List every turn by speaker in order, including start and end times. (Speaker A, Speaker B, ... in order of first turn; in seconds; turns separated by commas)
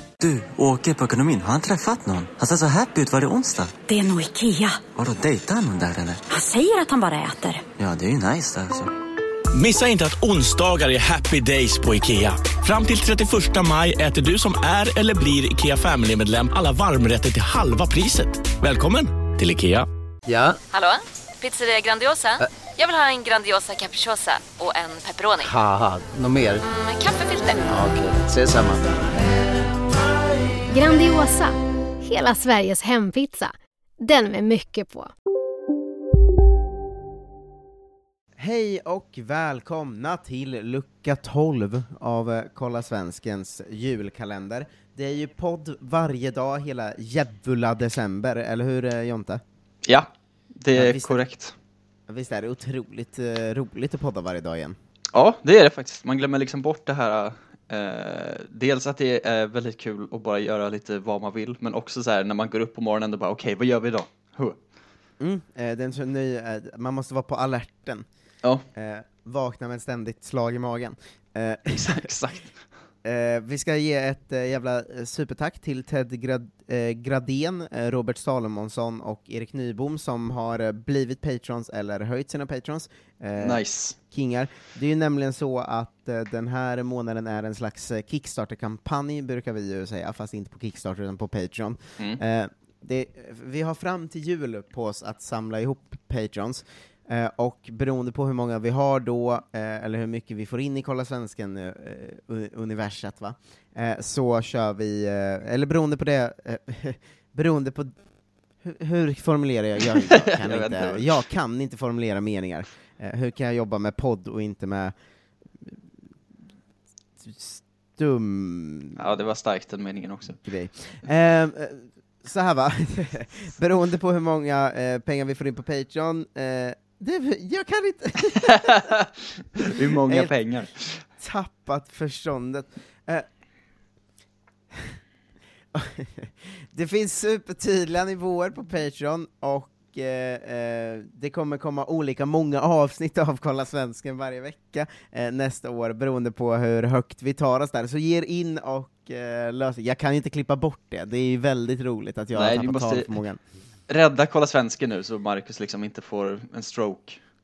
Speaker A: 0.2-3.8, Speaker B: 3.9-4.8, Speaker A: 4.9-6.2, Speaker B: 6.3-7.6, Speaker A: 7.8-8.9, Speaker C: 9.5-19.9, Speaker D: 20.7-25.5, Speaker E: 25.4-26.5, Speaker D: 26.7-27.7, Speaker E: 27.7-28.8, Speaker F: 30.7-35.1, Speaker G: 38.4-49.4, Speaker H: 50.6-51.5, Speaker G: 50.7-51.2, Speaker G: 52.1-54.8, Speaker H: 55.1-64.6, Speaker G: 65.2-68.1, Speaker G: 68.8-72.1, Speaker H: 71.7-72.5, Speaker G: 73.0-107.9, Speaker H: 83.3-84.0, Speaker G: 108.6-114.9, Speaker H: 109.9-111.2, Speaker G: 117.2-119.0, Speaker H: 119.0-120.4, Speaker G: 120.5-128.9, Speaker H: 128.4-131.0, Speaker G: 129.7-130.3, Speaker G: 131.2-133.2, Speaker G: 135.7-153.4, Speaker H: 152.3-153.1, Speaker H: 153.9-157.2